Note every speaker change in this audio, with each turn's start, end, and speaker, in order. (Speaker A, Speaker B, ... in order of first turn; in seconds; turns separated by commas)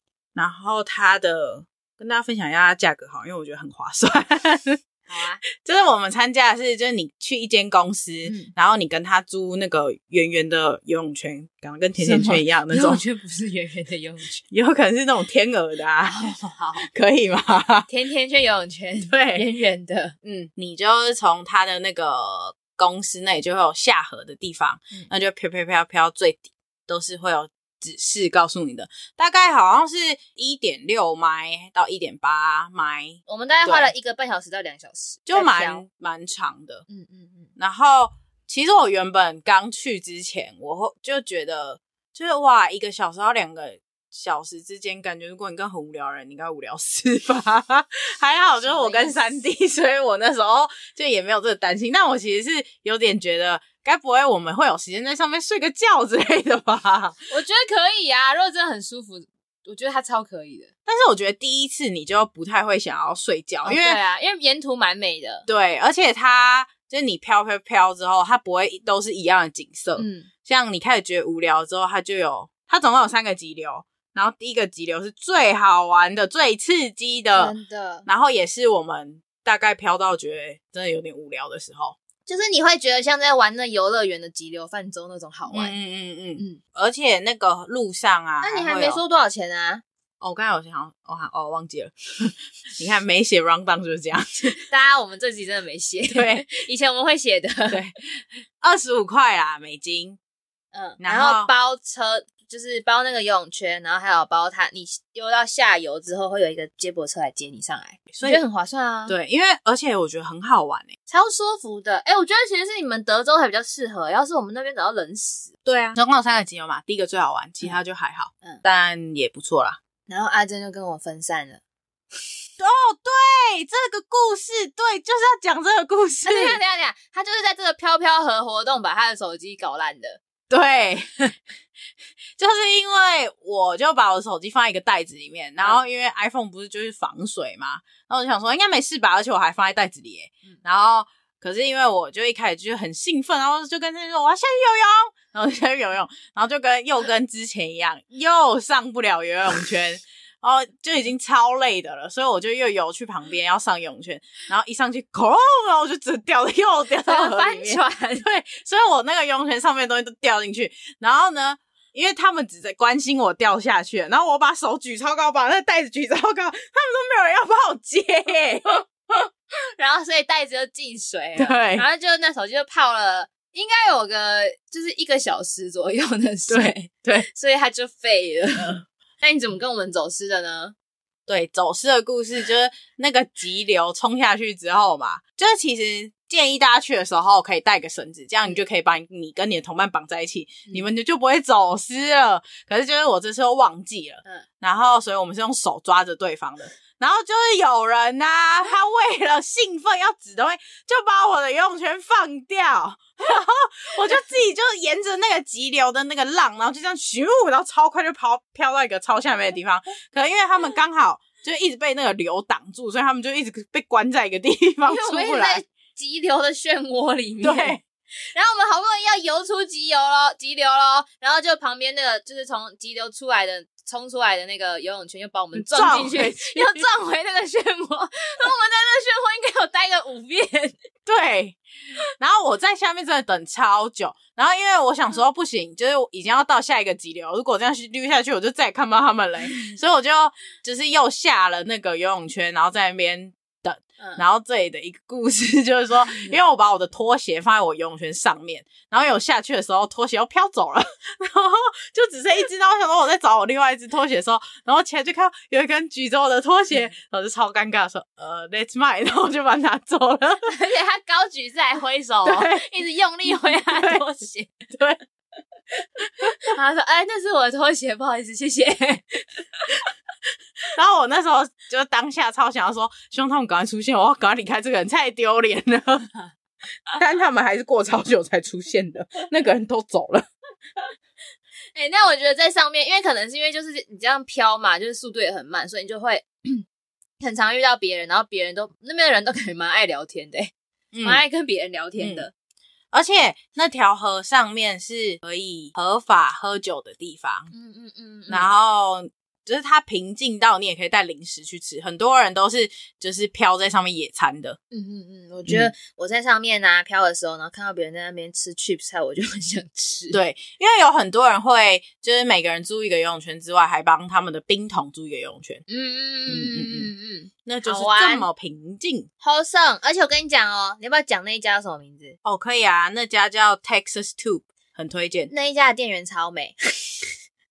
Speaker A: 0.3-4.8, Speaker B: 5.1-5.4, Speaker A: 5.6-13.0, Speaker B: 8.3-8.5, Speaker B: 12.0-14.4, Speaker A: 14.5-16.2, Speaker B: 16.0-16.9, Speaker A: 16.8-17.9, Speaker B: 17.9-20.2, Speaker A: 19.1-19.4, Speaker A: 20.2-33.9, Speaker B: 33.3-35.8, Speaker A: 35.3-36.9, Speaker B: 36.9-37.5, Speaker A: 37.6-57.2, Speaker B: 48.6-49.2, Speaker B: 57.3-60.7, Speaker A: 60.9-64.0, Speaker B: 63.6-65.5, Speaker A: 65.5-77.5, Speaker B: 70.0-70.3, Speaker B: 77.3-78.1, Speaker A: 78.1-82.0, Speaker B: 82.3-85.7, Speaker A: 85.5-89.0, Speaker B: 88.4-89.8, Speaker A: 90.2-94.6, Speaker B: 94.7-97.8, Speaker A: 96.1-96.5, Speaker A: 97.7-100.2, Speaker B: 100.7-109.2, Speaker A: 101.0-101.5, Speaker A: 108.1-108.4, Speaker A: 109.1-110.9, Speaker B: 111.1-115.5, Speaker A: 115.7-119.8, Speaker B: 120.1-121.6, Speaker A: 122.6-126.6, Speaker B: 126.2-130.2, Speaker A: 130.5-131.3, Speaker A: 132.4-168.9, Speaker B: 157.0-158.2, Speaker B: 169.8-180.8, Speaker A: 171.4-171.9, Speaker A: 176.5-177.3, Speaker A: 181.3-215.6, Speaker B: 214.9-217.8, Speaker A: 217.4-217.8, Speaker B: 218.3-230.8, Speaker A: 225.6-226.9, Speaker A: 231.1-231.6, Speaker A: 232.2-260.5, Speaker B: 260.5-264.6, Speaker A: 262.2-262.6, Speaker A: 263.8-264.0, Speaker A: 264.7-265.0, Speaker B: 266.5-269.8, Speaker A: 270.7-276.1, Speaker A: 276.9-280.3, Speaker B: 281.8-286.6, Speaker B: 287.2-290.5, Speaker A: 290.9-291.2, Speaker B: 291.0-292.3, Speaker A: 292.0-292.3, Speaker A: 292.9-297.5, Speaker B: 297.5-298.5, Speaker A: 298.3-304.6, Speaker B: 304.7-310.2, Speaker A: 305.5-305.7, Speaker A: 310.1-315.6, Speaker B: 315.7-318.3, Speaker A: 316.3-316.9, Speaker A: 317.4-319.1, Speaker B: 319.2-322.2, Speaker A: 322.2-325.3, Speaker B: 325.3-327.1